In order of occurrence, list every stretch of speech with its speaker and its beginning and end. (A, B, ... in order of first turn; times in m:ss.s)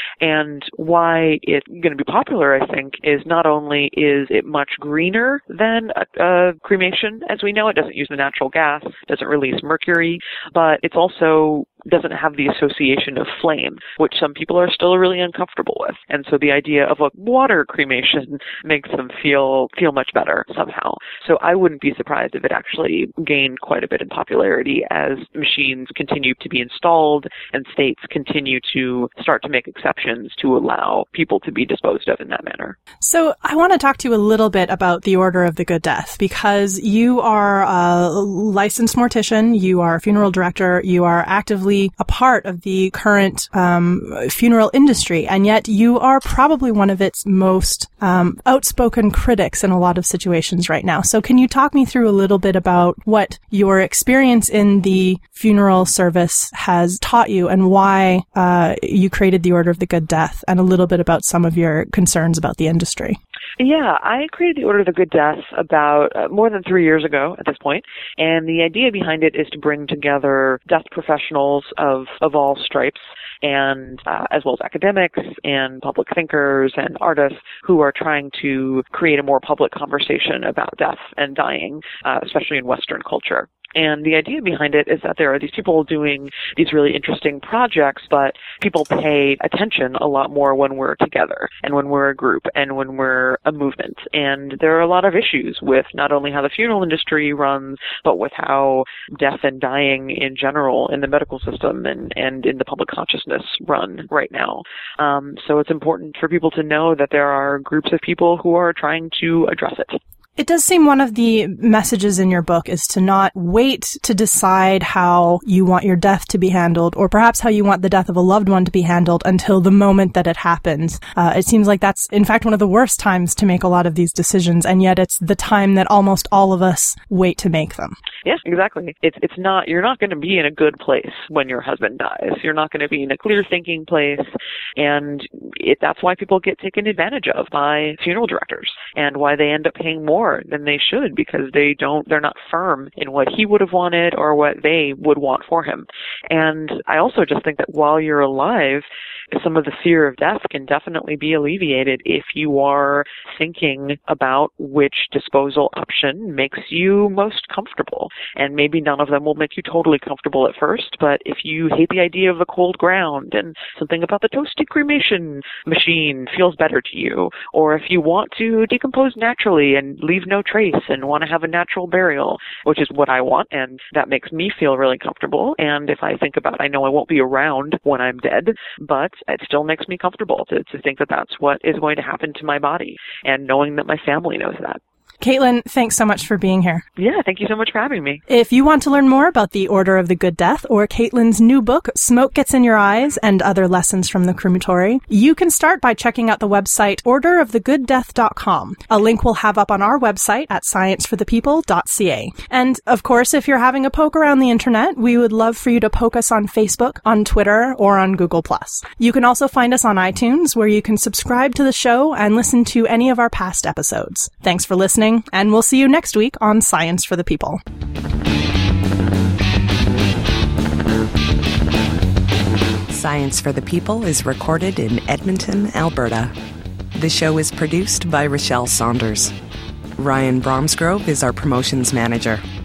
0:00.2-0:32.8 A
0:33.0-1:03.2 B
1:03.6-1:50.0 A
1:50.4-2:08.0 B
2:08.2-2:14.2 A
2:14.8-3:04.8 A
3:05.2-3:06.8 B
3:07.0-3:08.2 A
3:08.3-3:37.6 B
3:42.9-3:46.3 C
3:46.9-3:49.3 C
3:50.0-3:52.4 C